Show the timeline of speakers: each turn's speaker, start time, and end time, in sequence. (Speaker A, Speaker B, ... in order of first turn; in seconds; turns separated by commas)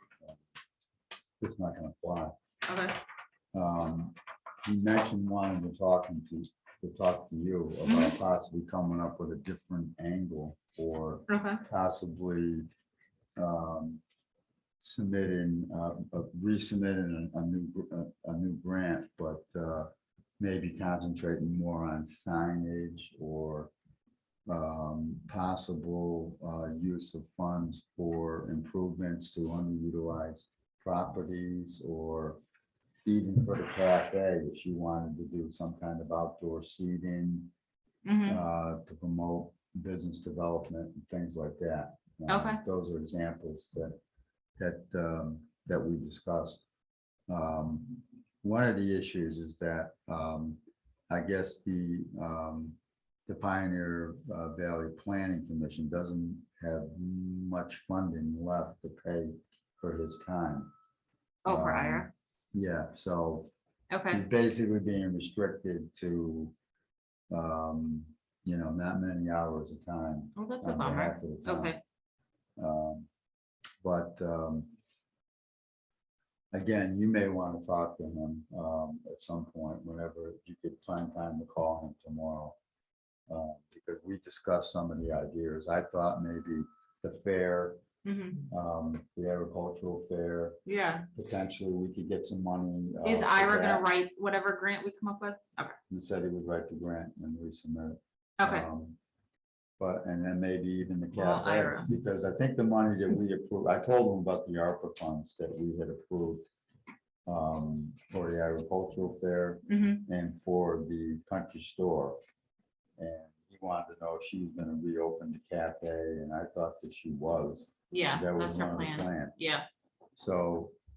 Speaker A: 1.4-2.3, Speaker B: 2.6-3.0, Speaker A: 3.5-12.7, Speaker B: 7.9-8.1, Speaker B: 11.3-11.6, Speaker A: 13.4-14.0, Speaker A: 14.8-23.7, Speaker A: 24.5-32.4, Speaker A: 33.0-37.5, Speaker B: 38.0-38.4, Speaker A: 38.2-44.0, Speaker B: 42.3-42.6, Speaker A: 44.6-46.6, Speaker A: 47.3-60.7, Speaker B: 61.4-62.1, Speaker A: 61.5-63.5, Speaker B: 63.9-64.2, Speaker A: 64.1-66.5, Speaker A: 67.3-71.8, Speaker B: 70.3-71.8, Speaker A: 72.6-73.1, Speaker A: 73.8-74.7, Speaker A: 76.5-82.6, Speaker A: 83.3-87.8, Speaker B: 88.0-88.4, Speaker A: 88.5-90.6, Speaker B: 90.7-91.1, Speaker A: 91.1-93.9, Speaker B: 93.0-95.8, Speaker A: 95.9-99.0, Speaker B: 98.4-98.7, Speaker A: 99.8-106.5, Speaker B: 101.1-101.9, Speaker A: 107.2-112.2, Speaker B: 109.7-110.0, Speaker A: 113.0-119.3, Speaker B: 117.9-119.7, Speaker A: 120.2-120.7